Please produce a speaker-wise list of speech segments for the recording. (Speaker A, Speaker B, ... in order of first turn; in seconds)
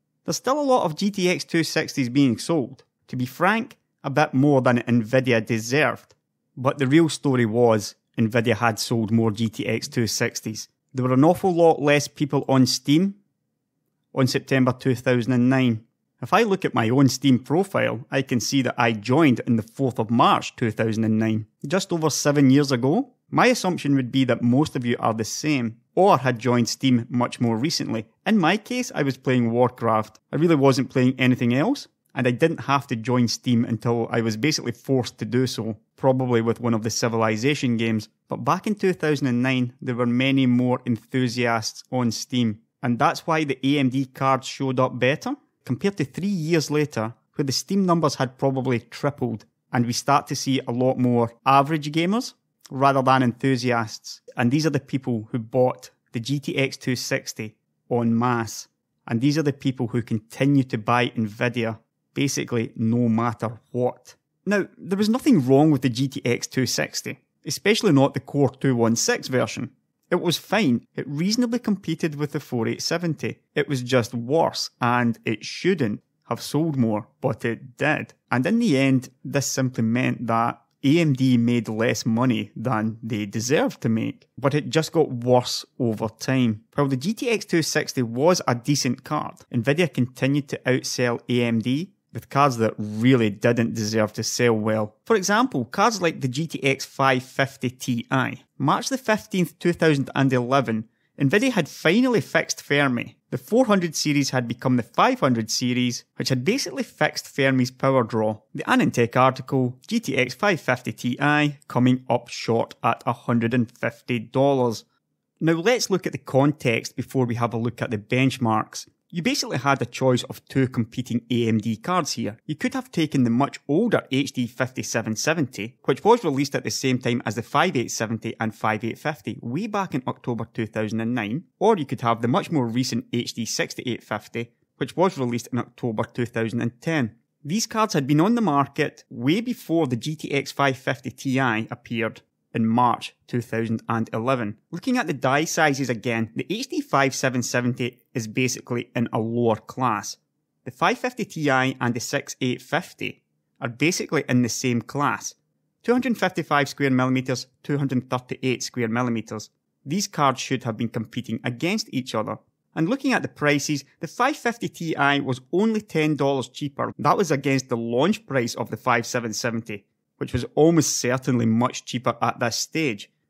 Speaker A: 0.2-13.2, 14.1-114.9, 115.4-173.1